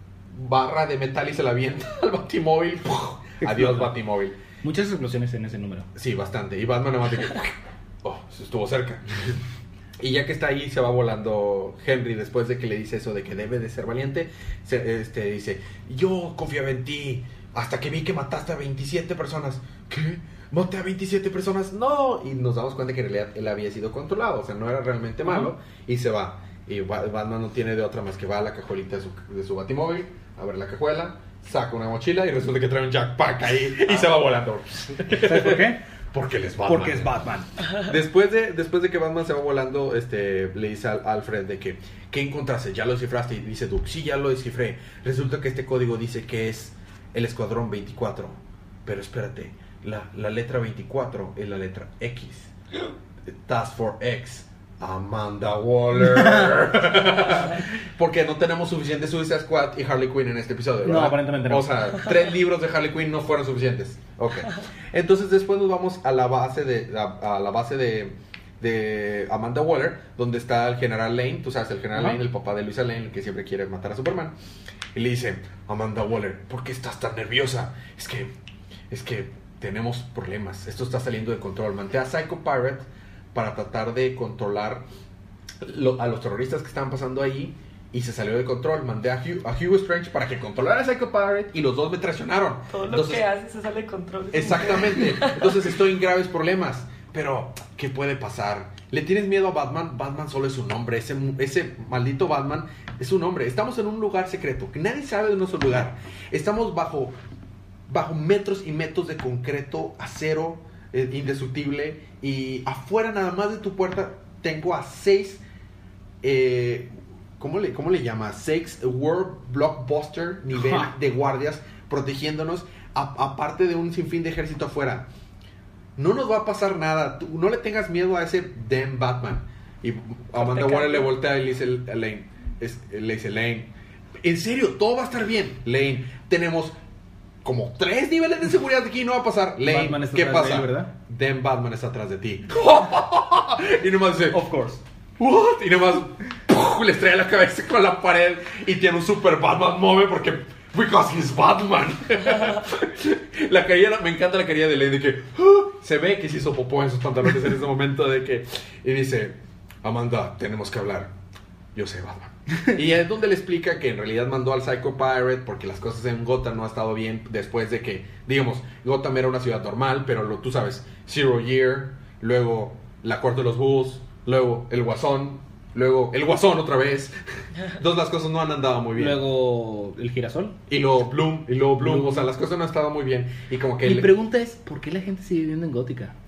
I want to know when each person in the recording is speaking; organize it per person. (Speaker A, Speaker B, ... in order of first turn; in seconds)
Speaker A: 0.3-4.4, 6.0-9.4, 10.0-52.5, 53.3-74.3, 74.9-78.3, 78.9-84.8, 85.6-93.3, 94.3-107.2, 107.9-115.4, 116.2-125.1, 126.0-136.8, 137.4-144.4, 145.2-161.1, 161.8-179.2, 180.7-184.1
Speaker B: 3.4-3.9, 4.6-5.9, 35.2-35.8, 36.6-37.5, 60.8-61.7, 71.9-72.2, 120.6-120.9, 130.4-131.1, 139.6-140.9, 144.3-144.8, 179.0-180.6, 181.8-182.2, 183.8-186.1
Speaker C: 92.7-95.6